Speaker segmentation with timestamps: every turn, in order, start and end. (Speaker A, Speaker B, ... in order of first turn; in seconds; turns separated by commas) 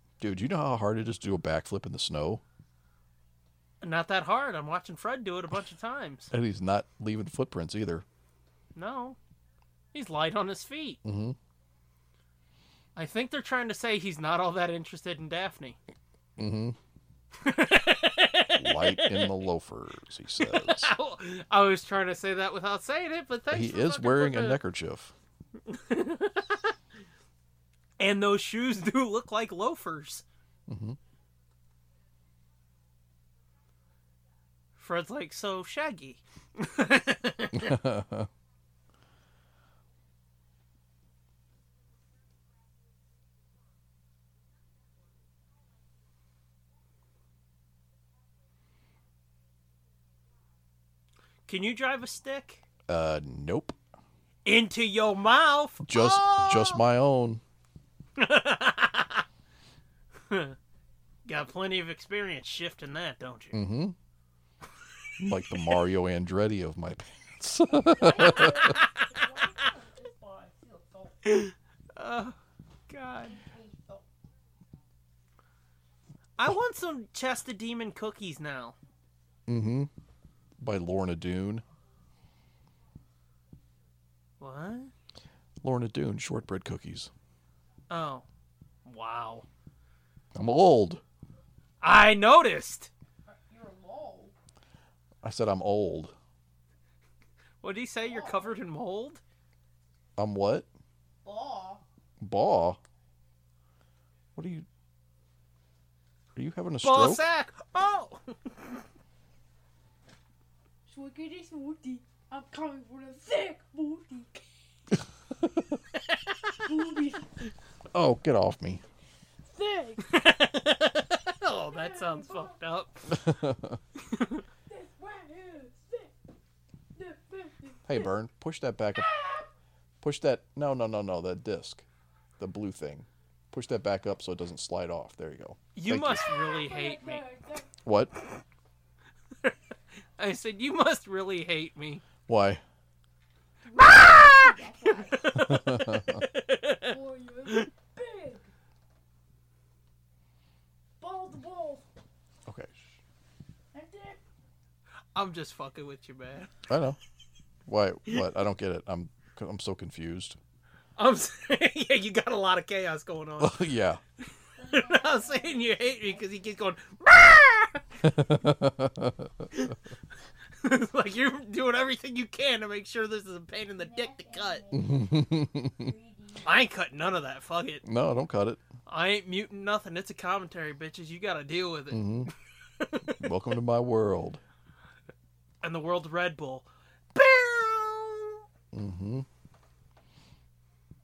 Speaker A: 0.2-2.4, Speaker B: 3.8-6.3, Speaker A: 6.3-8.1, Speaker B: 8.8-9.2, Speaker B: 9.9-11.0, Speaker A: 11.0-11.4, Speaker B: 13.0-15.8, Speaker A: 16.4-16.8, Speaker B: 17.4-19.3, Speaker A: 18.6-20.9, Speaker B: 20.4-24.6, Speaker A: 23.5-25.1, Speaker B: 25.7-26.8, Speaker B: 28.0-30.2, Speaker A: 30.7-31.0, Speaker B: 34.8-37.8, Speaker A: 37.5-38.3, Speaker B: 51.5-52.6, Speaker A: 52.9-53.8, Speaker B: 54.5-56.8, Speaker A: 55.8-57.4, Speaker B: 58.2-59.2, Speaker B: 60.3-60.6, Speaker B: 61.3-63.6, Speaker A: 63.5-64.0, Speaker A: 65.2-68.8, Speaker C: 67.7-71.2, Speaker B: 68.6-69.0, Speaker B: 71.2-72.4, Speaker B: 72.9-73.4, Speaker C: 73.2-74.0, Speaker B: 76.4-78.8, Speaker A: 79.5-79.9, Speaker A: 80.6-81.6, Speaker B: 84.4-84.9, Speaker A: 85.6-87.1, Speaker B: 87.9-88.2, Speaker B: 88.8-89.5, Speaker A: 90.3-91.0, Speaker B: 91.8-92.9, Speaker C: 93.3-94.3, Speaker A: 95.2-96.1, Speaker B: 97.6-99.2, Speaker C: 98.0-98.6, Speaker A: 100.2-100.7, Speaker C: 101.2-101.8, Speaker A: 102.2-102.8, Speaker A: 104.4-104.7, Speaker A: 106.3-107.2, Speaker B: 106.8-108.6, Speaker C: 110.9-114.5, Speaker B: 116.1-116.6, Speaker C: 116.6-117.5, Speaker A: 117.9-118.8, Speaker C: 119.5-120.1, Speaker B: 120.1-123.4, Speaker C: 121.5-122.6, Speaker A: 123.1-123.8, Speaker B: 124.0-124.4, Speaker C: 124.7-126.2, Speaker C: 127.0-128.1, Speaker A: 127.9-129.1, Speaker C: 128.9-129.5, Speaker A: 130.0-131.8, Speaker A: 132.4-136.2, Speaker B: 135.8-137.2, Speaker C: 136.3-137.8, Speaker A: 137.8-138.1, Speaker B: 140.2-142.0, Speaker A: 142.3-142.6, Speaker C: 143.7-145.6, Speaker B: 143.8-147.7, Speaker A: 145.3-146.2, Speaker C: 146.9-148.5, Speaker C: 151.0-151.8, Speaker A: 152.5-152.9, Speaker C: 153.7-154.2, Speaker B: 155.2-156.5, Speaker A: 156.7-157.0, Speaker A: 157.7-160.4, Speaker B: 161.0-163.6, Speaker A: 163.4-164.0, Speaker C: 164.6-166.4, Speaker B: 164.6-168.0, Speaker A: 168.0-169.5, Speaker B: 169.5-169.8, Speaker B: 170.5-174.7, Speaker C: 173.8-176.6, Speaker A: 174.7-175.9, Speaker B: 176.4-177.8, Speaker A: 177.8-178.6, Speaker B: 178.9-183.2, Speaker A: 181.9-182.3, Speaker A: 183.0-184.4, Speaker B: 185.6-188.4, Speaker A: 188.7-189.3